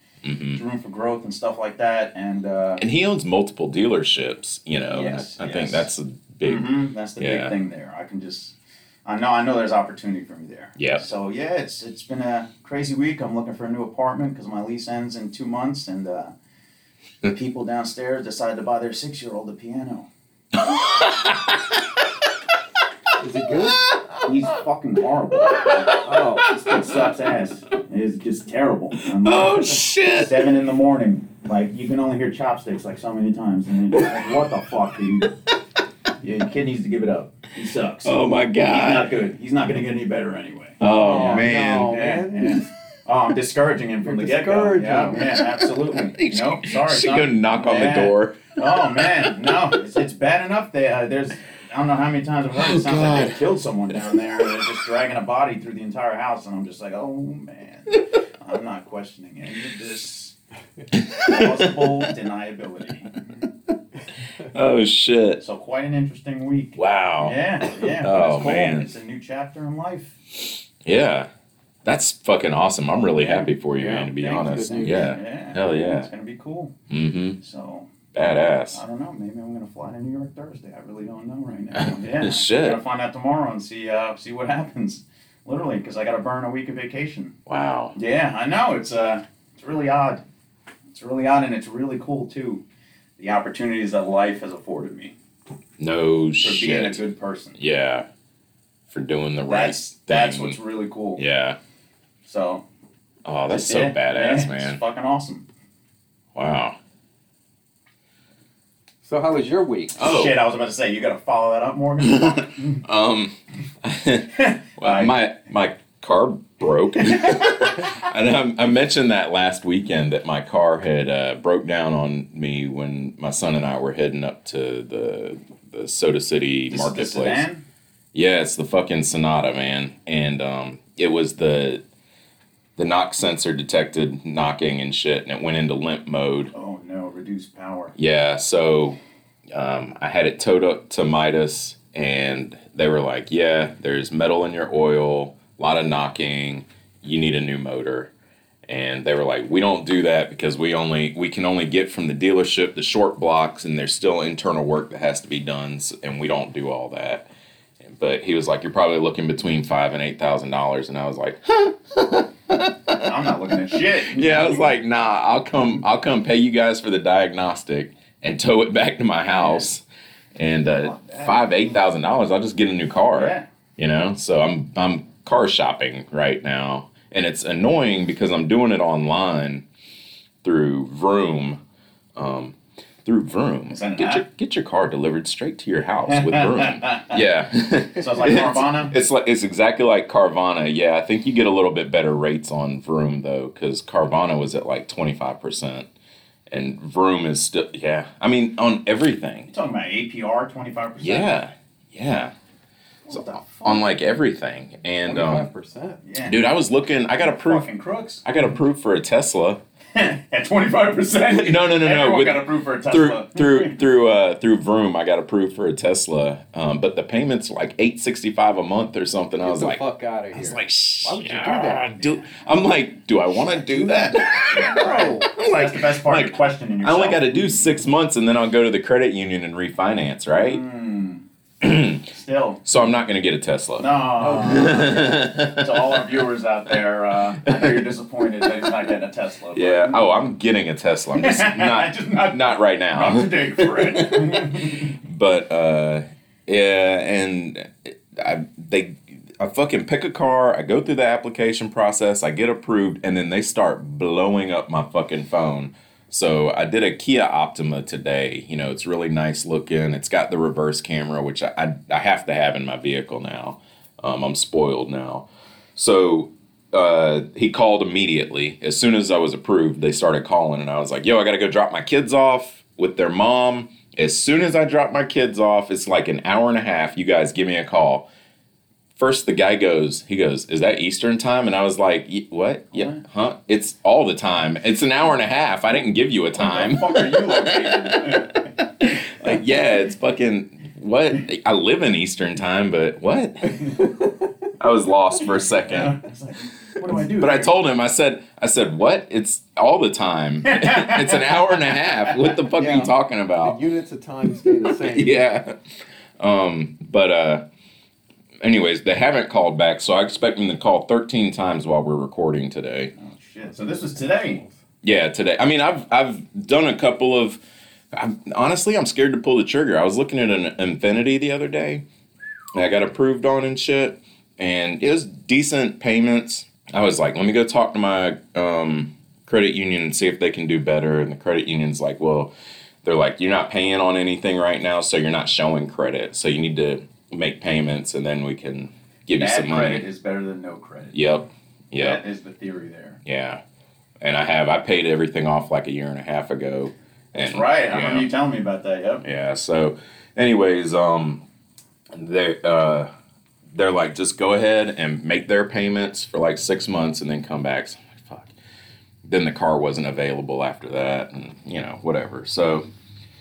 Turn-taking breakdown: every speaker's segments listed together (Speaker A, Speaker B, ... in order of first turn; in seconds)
Speaker A: 0.2-0.6, 2.8-7.5, 10.8-11.0, 20.5-22.0, 25.4-27.1, 29.0-30.4, 38.0-39.1, 40.8-41.9, 45.9-49.3, 52.5-54.7, 60.9-62.1, 64.4-65.4, 66.8-68.9, 70.8-71.3, 71.8-76.1, 76.9-77.4, 78.1-78.8, 81.8-82.8, 87.5-88.0, 95.8-97.0, 97.6-98.1, 98.9-100.6, 101.2-101.6, 103.2-104.8, 106.3-106.8, 110.0-110.4, 112.1-127.5, 128.1-131.8, 132.8-136.5, 138.0-139.0, 139.5-148.1, 148.7-157.3, 157.8-163.2, 163.8-169.8, 170.4-179.7, 180.4-181.6, 182.2-195.9, 196.5-199.5, 201.0-202.3, 203.1-205.5, 206.2-207.7, 208.2-209.6, 211.3-219.8, 220.3-230.6, 231.6-232.1, 232.7-236.2, 237.4-237.9, 239.6-278.1, 279.0-293.9, 294.6-296.0, 296.9-303.6, 304.4-305.6, 306.2-307.4, 308.4-312.9, 314.8-317.4, 317.9-321.9, 322.6-332.3, 332.8-339.9, 340.9-342.0, 343.1-343.4, 344.0-348.1, 349.0-351.2, 351.9-352.9, 353.5-358.3, 359.1-362.7
Speaker B: 0.6-2.8, 4.9-5.9, 6.4-16.3, 17.2-20.1, 24.2-35.3, 36.2-60.4, 61.2-63.5, 65.4-70.2, 74.2-76.7, 77.4-78.1, 78.7-87.4, 88.0-90.2, 90.9-92.6, 93.2-95.2, 96.4-97.6, 99.5-101.2, 102.2-102.7, 103.5-105.5, 110.0-112.8, 114.4-115.2, 126.7-127.6, 136.5-137.9, 162.9-164.8, 169.3-169.7, 170.7-171.5, 173.1-173.5, 183.7-184.2, 186.1-187.2, 187.9-188.9, 199.5-201.4, 203.1-203.8, 206.1-206.4, 207.2-208.2, 209.9-213.8, 223.8-227.7, 230.4-231.2, 232.1-232.6, 233.8-240.0, 241.1-245.0, 282.7-283.0, 286.4-288.5, 295.3-297.5, 300.4-301.4, 313.0-314.4, 339.2-341.0, 341.8-343.0, 347.1-349.1
Speaker C: 23.2-23.8, 26.0-26.5, 40.9-42.7, 44.0-45.2, 73.6-75.2, 109.0-110.0, 205.1-206.0, 219.4-221.9, 223.7-224.1, 224.7-225.3, 234.2-235.0, 302.6-305.2